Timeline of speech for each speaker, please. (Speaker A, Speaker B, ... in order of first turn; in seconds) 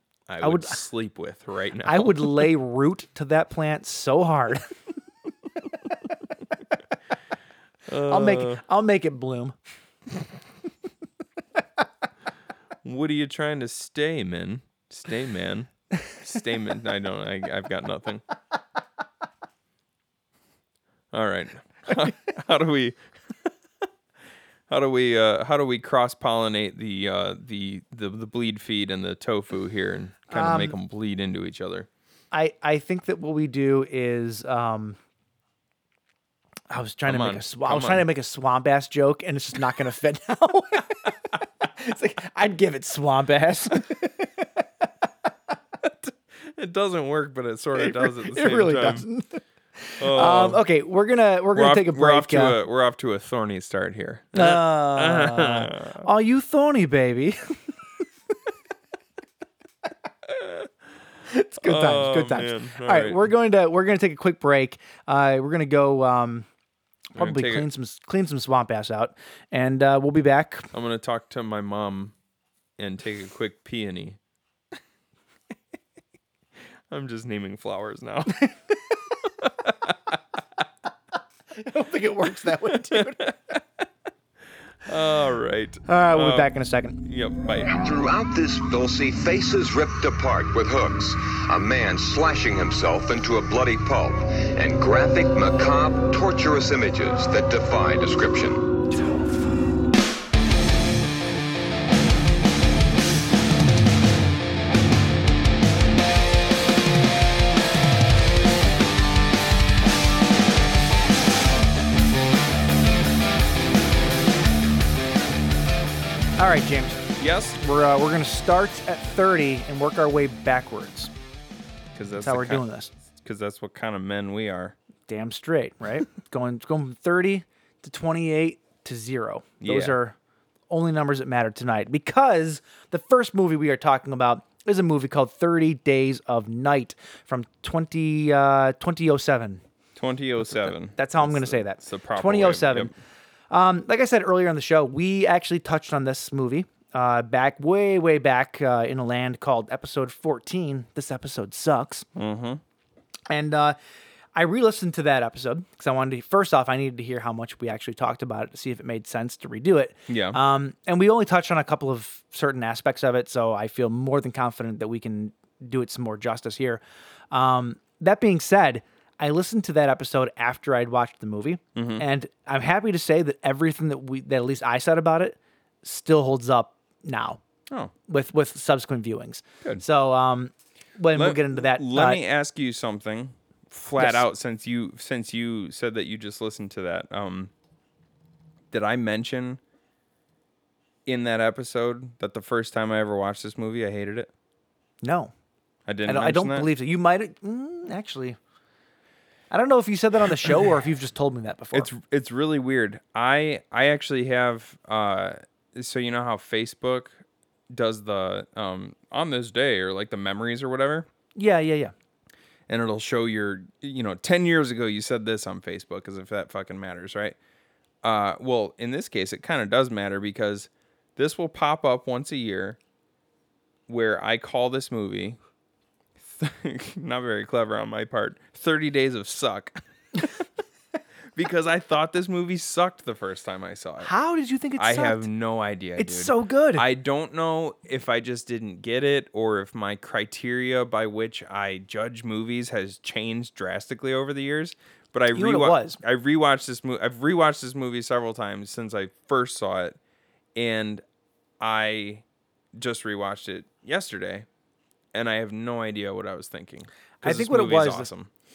Speaker A: 0.3-2.5, 7.9-8.6, 12.8-18.2, 21.1-23.0, 24.7-31.9, 37.1-38.0, 45.9-49.1, 50.0-50.6, 51.5-56.1, 60.3-60.7, 61.6-63.2, 67.2-67.6, 70.7-72.1, 72.8-74.2, 76.9-78.5, 79.4-80.1, 82.7-83.6, 84.8-87.7, 117.2-117.6, 122.0-122.6, 123.2-124.8, 129.6-130.0, 139.9-142.9, 152.1-152.6, 160.1-160.4, 171.8-172.0, 181.1-187.5, 188.7-189.6, 191.1-194.3, 195.9-196.7, 201.7-207.2, 207.7-211.1, 212.7-217.4, 218.0-222.8, 223.9-225.4, 226.2-230.3, 231.4-234.1, 234.8-249.9, 250.6-251.0, 251.6-252.2, 252.8-254.4, 255.1-258.3
Speaker B: 0.4-0.8, 1.9-4.7, 8.1-9.5, 30.3-30.8, 32.3-35.0, 36.7-44.5, 47.8-52.6, 54.3-57.6, 61.3-66.5, 67.2-70.7, 81.5-83.3, 85.9-87.0, 116.4-117.1, 117.6-121.1, 122.2-122.9, 125.1-130.1, 130.7-139.6, 140.6-142.9, 143.5-152.1, 153.3-153.8, 154.3-177.4, 178.1-182.2, 184.0-184.2, 195.0-195.3, 196.1-198.4, 199.5-201.9, 211.4-211.9, 234.0-235.3, 236.0-236.8, 245.3-246.0, 257.2-258.1
Speaker C: 87.7-98.7